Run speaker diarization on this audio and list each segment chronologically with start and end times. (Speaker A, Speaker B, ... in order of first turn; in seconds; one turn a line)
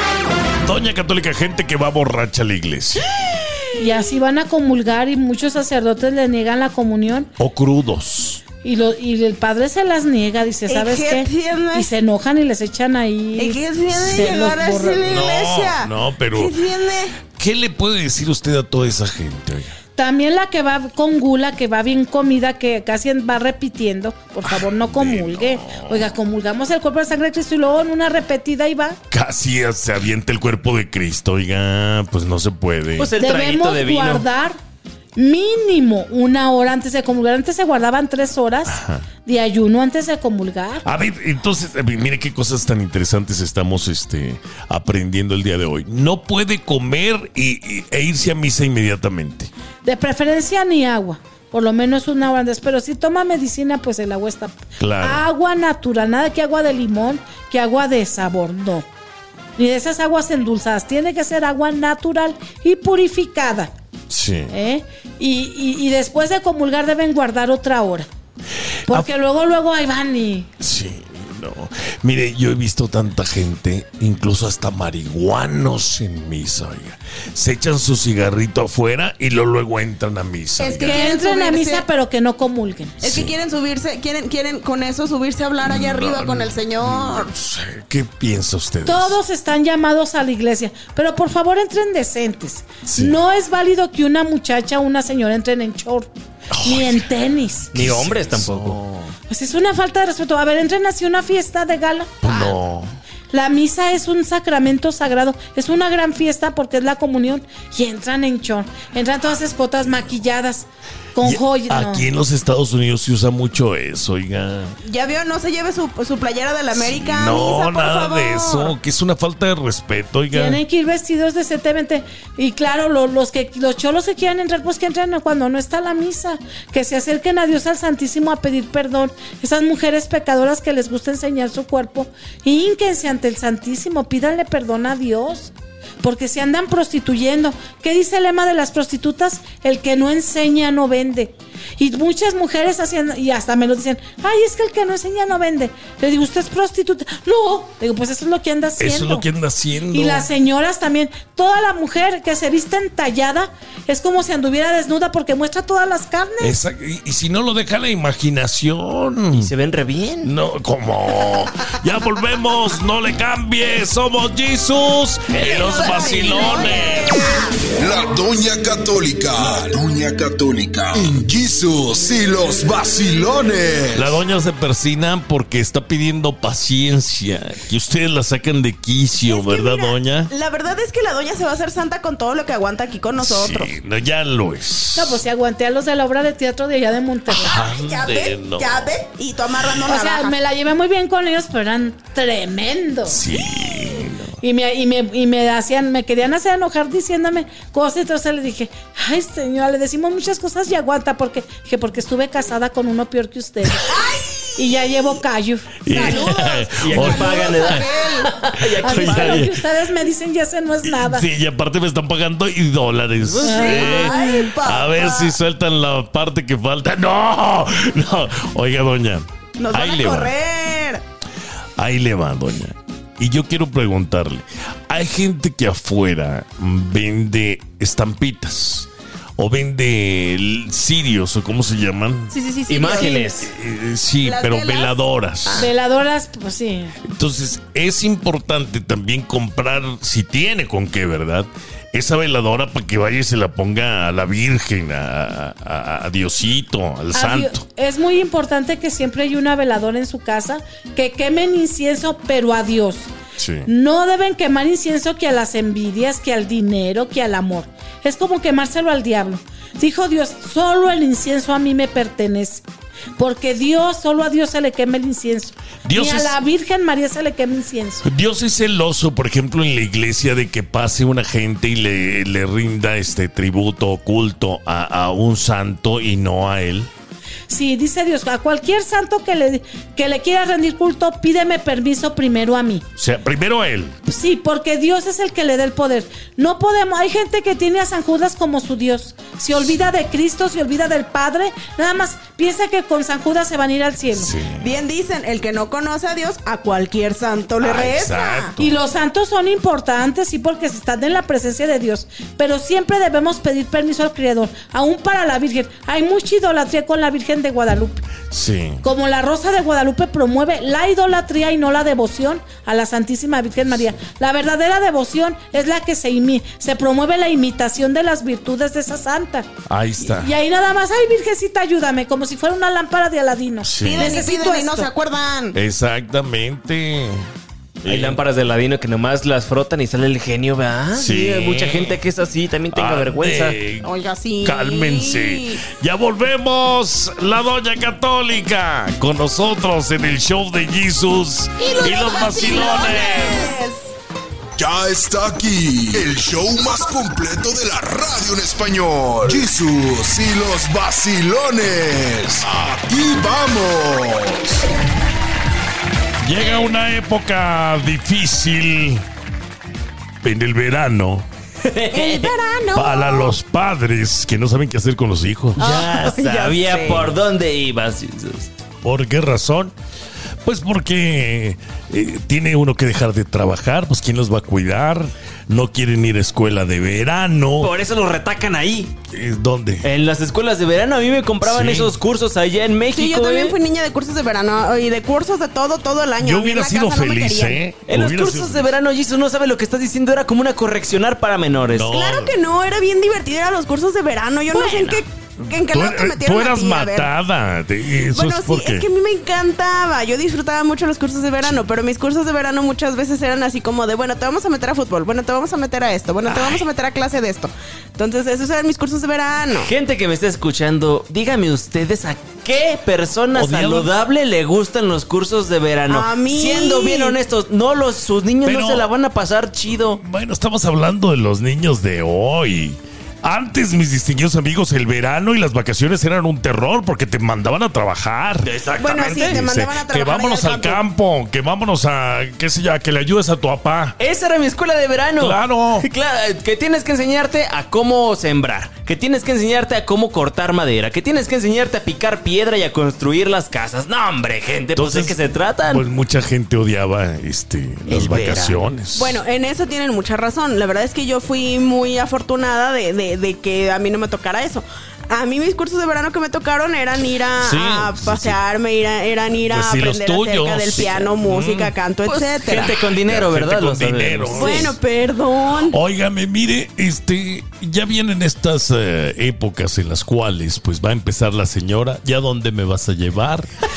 Speaker A: 0.6-3.1
Speaker B: 3.2-4.0
Speaker C: 3.8-7.3
Speaker A: 7.4-8.4
Speaker C: 8.6-15.2
Speaker B: 10.7-11.9
Speaker B: 13.4-17.1
Speaker A: 14.1-14.3
Speaker A: 15.1-16.6
Speaker A: 17.4-19.8
Speaker C: 20.0-29.0
Speaker A: 24.5-26.1
Speaker A: 29.1-33.1
Speaker D: 33.0-34.2
Speaker C: 33.2-34.6
Speaker C: 35.2-40.9
Speaker A: 38.7-39.0
Speaker A: 40.9-49.5
Speaker C: 49.8-58.9
Speaker A: 54.8-55.2
Speaker C: 59.6-63.7
Speaker A: 64.1-64.5
Speaker C: 64.5-68.1
Speaker C: 68.9-70.5
Speaker A: 70.6-81.1
Speaker B: 80.6-81.9
Speaker C: 80.8-83.0
Speaker A: 83.0-83.3
Speaker B: 83.0-87.3
Speaker A: 85.6-89.2
Speaker C: 88.8-96.1
Speaker A: 92.8-93.2
Speaker A: 96.5-97.0
Speaker C: 96.6-97.8
Speaker D: 97.7-98.8
Speaker A: 97.7-99.1
Speaker C: 99.3-102.2
Speaker A: 102.2-102.9
Speaker C: 103.3-112.1
Speaker A: 111.2-114.8
Speaker B: 114.8-118.7
Speaker A: 116.8-120.6
Speaker C: 120.3-149.3
Speaker A: 148.8-150.3
Speaker C: 149.9-156.6
Speaker A: 156.4-159.5
Speaker D: 159.3-160.3
Speaker A: 160.2-167.2
Speaker B: 165.4-167.5
Speaker D: 165.4-166.7
Speaker E: 167.8-174.2
Speaker A: 173.9-180.3
Speaker B: 179.3-183.7
Speaker A: 183.2-185.2
Speaker C: 184.9-187.6
Speaker A: 187.3-188.9
Speaker B: 187.4-190.3
Speaker C: 189.9-193.2
Speaker A: 193.1-194.4
Speaker C: 194.4-204.0
Speaker B: 203.9-205.0
Speaker C: 204.6-206.1
Speaker A: 205.8-207.9
Speaker B: 205.9-208.3
Speaker D: 206.8-209.5
Speaker A: 208.6-209.6
Speaker C: 208.8-211.3
Speaker A: 210.8-220.3
Speaker D: 213.3-214.2
Speaker C: 213.4-214.4
Speaker B: 213.4-215.4
Speaker B: 219.6-221.0
Speaker A: 221.8-232.3
Speaker B: 232.3-233.3
Speaker D: 232.7-233.5
Speaker A: 233.0-235.7
Speaker B: 234.2-235.0
Speaker C: 235.6-236.9
Speaker A: 237.1-247.6
Speaker C: 247.1-253.1
Speaker A: 253.4-253.7
Speaker C: 253.7-262.6
Speaker C: 263.2-268.1
Speaker A: 265.9-266.4
Speaker A: 268.0-276.9
Speaker C: 277.5-282.9
Speaker A: 283.0-284.0
Speaker C: 284.1-294.4
Speaker A: 294.1-294.7
Speaker B: 294.6-298.6
Speaker A: 297.6-298.8
Speaker C: 298.6-308.1
Speaker A: 308.3-308.8
Speaker C: 308.8-324.9
Speaker A: 319.7-320.3
Speaker A: 323.6-324.1
Speaker B: 323.8-325.6
Speaker A: 325.5-327.3
Speaker A: 327.8-328.2
Speaker D: 327.9-333.6
Speaker A: 331.0-332.0
Speaker A: 332.7-333.9
Speaker B: 333.8-335.6
Speaker A: 334.4-343.5
Speaker B: 341.6-343.9
Speaker E: 344.6-354.6
Speaker A: 356.2-359.0
Speaker A: 360.2-361.3
Speaker D: 361.6-362.3
Speaker B: 361.9-363.4
Speaker A: 362.7-365.9
Speaker B: 365.6-367.1
Speaker D: 365.6-368.5
Speaker A: 368.8-369.7
Speaker A: 370.4-377.7
Speaker D: 377.6-378.9
Speaker A: 379.1-379.9
Speaker D: 379.8-383.6
Speaker A: 381.4-381.9
Speaker B: 382.9-387.6
Speaker A: 386.2-388.7
Speaker D: 387.9-391.9
Speaker A: 391.7-392.3
Speaker B: 391.9-397.1
Speaker D: 394.5-395.0
Speaker A: 395.5-398.9
Speaker B: 398.1-409.7
Speaker D: 406.4-406.6
Speaker D: 409.6-420.0
Speaker A: 413.3-413.9
Speaker B: 415.9-417.2
Speaker A: 418.4-418.9
Speaker A: 419.9-434.0
Speaker D: 428.4-429.4
Speaker B: 428.8-430.8
Speaker D: 434.0-445.8
Speaker A: 435.2-435.9
Speaker A: 444.8-445.2
Speaker A: 445.7-449.1
Speaker D: 447.9-448.7
Speaker B: 448.9-462.8
Speaker A: 457.4-458.4
Speaker A: 459.5-461.7
Speaker D: 462.1-464.7
Speaker A: 462.9-464.8
Speaker B: 464.3-465.8
Speaker A: 465.7-473.5